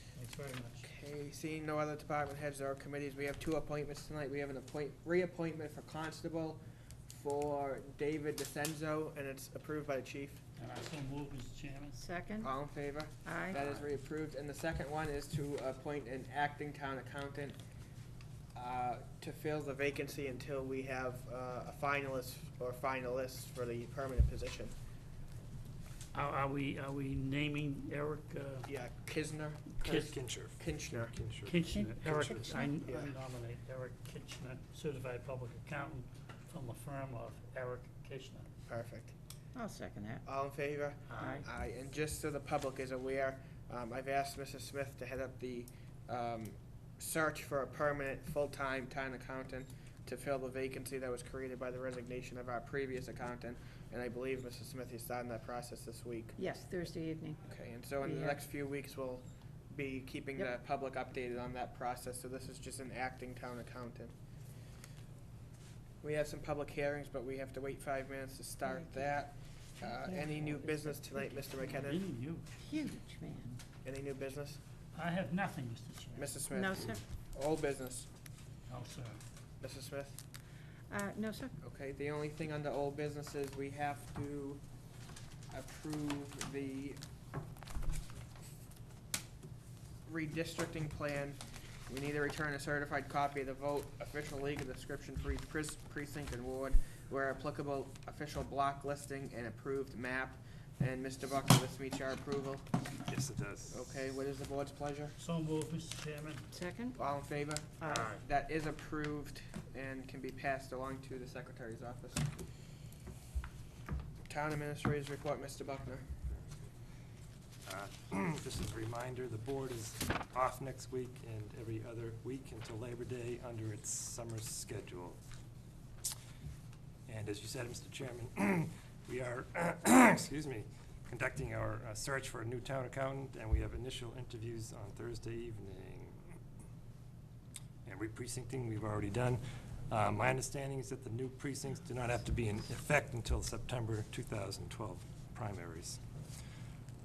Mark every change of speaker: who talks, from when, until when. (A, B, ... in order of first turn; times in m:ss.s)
0:00.2-0:00.8 A
0:00.8-0:10.4 B
0:10.6-0:12.0 A
0:12.0-0:12.5 C
0:12.4-0:17.6 B
0:13.2-0:13.6 C
0:13.5-0:13.9 A
0:18.5-0:24.7 B
0:26.1-0:28.7 A
0:28.7-0:31.1 B
0:29.8-0:30.1 A
0:29.8-0:32.4 D
0:31.4-0:38.5 A
0:31.7-0:32.7 C
0:38.7-0:39.1 B
0:39.5-0:40.2 C
0:40.2-0:56.4 B
0:41.1-0:41.4 A
0:41.2-0:41.4 C
0:56.4-0:57.4 C
0:57.4-1:04.1 B
0:58.0-0:58.4 C
1:06.0-1:12.0 B
1:08.6-1:09.1 C
1:09.8-1:11.8 C
1:11.8-1:12.5 A
1:12.6-1:13.6 C
1:13.8-1:14.6 B
1:14.9-1:16.4 A
1:16.1-1:18.1 B
1:16.5-1:17.0 C
1:18.7-1:19.2 A
1:19.6-1:20.2 B
1:20.9-1:21.6 C
1:21.6-1:24.6 B
1:25.5-1:27.0 B
1:30.0-1:42.6 B
1:43.1-1:43.8 D
1:43.7-1:45.2 B
1:45.2-1:46.5 A
1:46.5-1:47.0 C
1:47.0-1:52.2 B
1:47.8-1:48.1 C
1:47.8-1:48.2 A
1:54.2-1:56.0 B
1:57.6-2:05.2 D
2:07.1-2:16.3 D
2:17.8-2:26.0 D